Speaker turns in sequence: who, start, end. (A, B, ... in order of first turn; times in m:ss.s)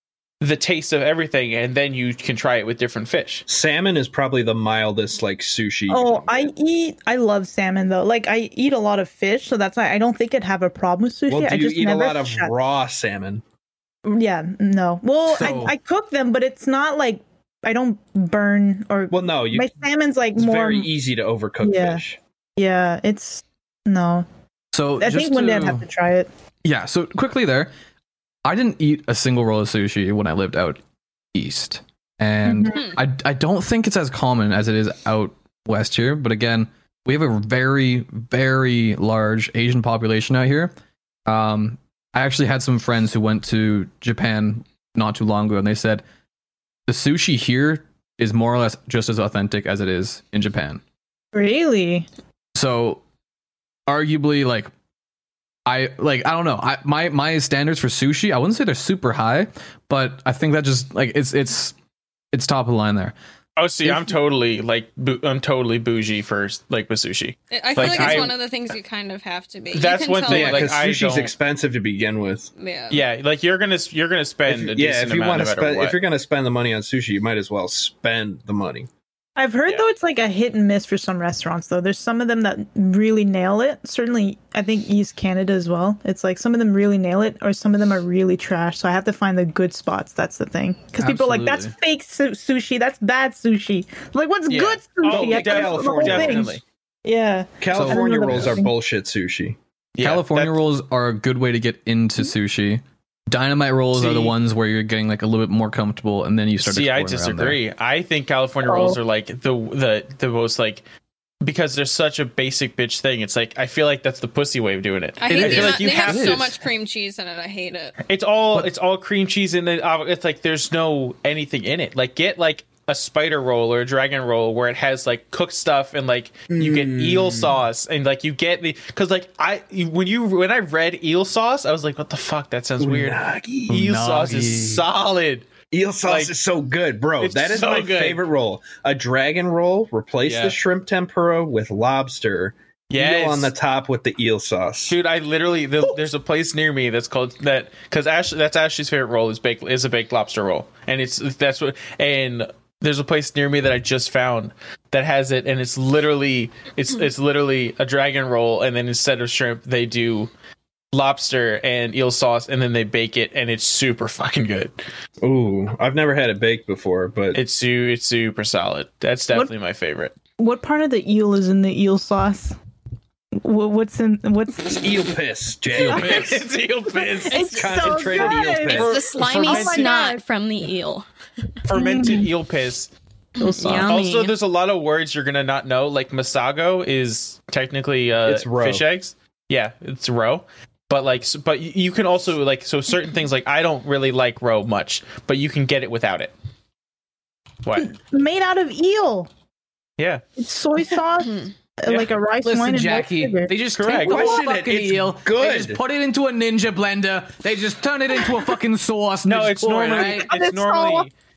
0:00.4-0:03.4 A
0:03.5-0:06.5 B
0:05.9-0:12.5 C
0:11.3-0:13.4 B
0:14.0-0:20.9 C
0:15.3-0:15.7 D
0:19.1-0:19.7 B
0:20.3-0:22.2 B
0:21.6-0:22.0 C
0:22.6-0:24.2 C
0:24.7-0:25.8 D
0:25.0-0:26.3 C
0:26.6-0:27.7 D
0:28.4-0:30.8 D
0:31.3-0:40.7 D
0:32.4-0:32.8 C
0:32.7-0:33.0 E
0:41.3-0:46.0 D
0:46.9-0:50.8 D
0:51.3-0:52.1 C
0:52.5-0:53.0 D
0:53.9-0:54.7 D
0:55.6-1:01.7 D
1:02.3-1:03.1 D
1:03.6-1:08.4 A
1:07.5-1:10.7 E
1:07.8-1:08.3 B
1:09.7-1:11.3 A
1:10.3-1:12.5 B
1:12.6-1:13.0 E
1:12.9-1:16.0 A
1:14.5-1:18.9 B
1:19.4-1:38.7 C
1:31.0-1:31.7 D
1:34.5-1:36.6 A
1:35.0-1:36.6 B
1:37.6-1:39.6 B
1:37.7-1:38.5 D
1:39.9-1:40.6 A
1:40.0-1:47.6 D
1:43.9-1:44.4 A
1:46.6-1:50.8 A
1:48.6-1:49.0 C
1:51.4-1:56.5 A
1:55.2-1:57.9 E
1:55.3-1:56.5 D
1:58.1-2:15.5 A
2:06.5-2:07.6 B
2:12.8-2:13.8 B
2:13.7-2:14.8 D
2:15.7-2:25.0 B
2:16.0-2:16.3 A
2:17.2-2:18.2 A
2:20.2-2:20.6 A
2:22.9-2:23.5 A
2:24.9-2:40.3 A
2:40.9-2:44.8 A
2:45.2-2:47.4 B
2:47.3-2:50.1 A
2:50.4-2:52.6 C
2:53.4-2:55.1 C
2:54.6-2:56.4 B
2:55.7-3:00.0 A
2:55.8-2:56.4 C
2:57.0-3:00.2 C
2:57.5-2:59.0 B
2:58.6-3:01.0 E
3:01.6-3:02.9 A
3:01.7-3:02.3 C
3:03.4-3:04.3 E
3:03.4-3:04.0 C
3:03.6-3:16.3 A
3:08.2-3:08.8 B
3:17.6-3:17.9 A
3:17.8-3:19.3 C
3:20.0-3:20.2 A
3:20.4-3:23.5 C
3:21.2-3:21.5 E
3:22.4-3:30.3 D
3:23.7-3:24.4 A
3:24.0-3:25.8 B
3:29.2-3:31.1 A
3:29.9-3:31.1 C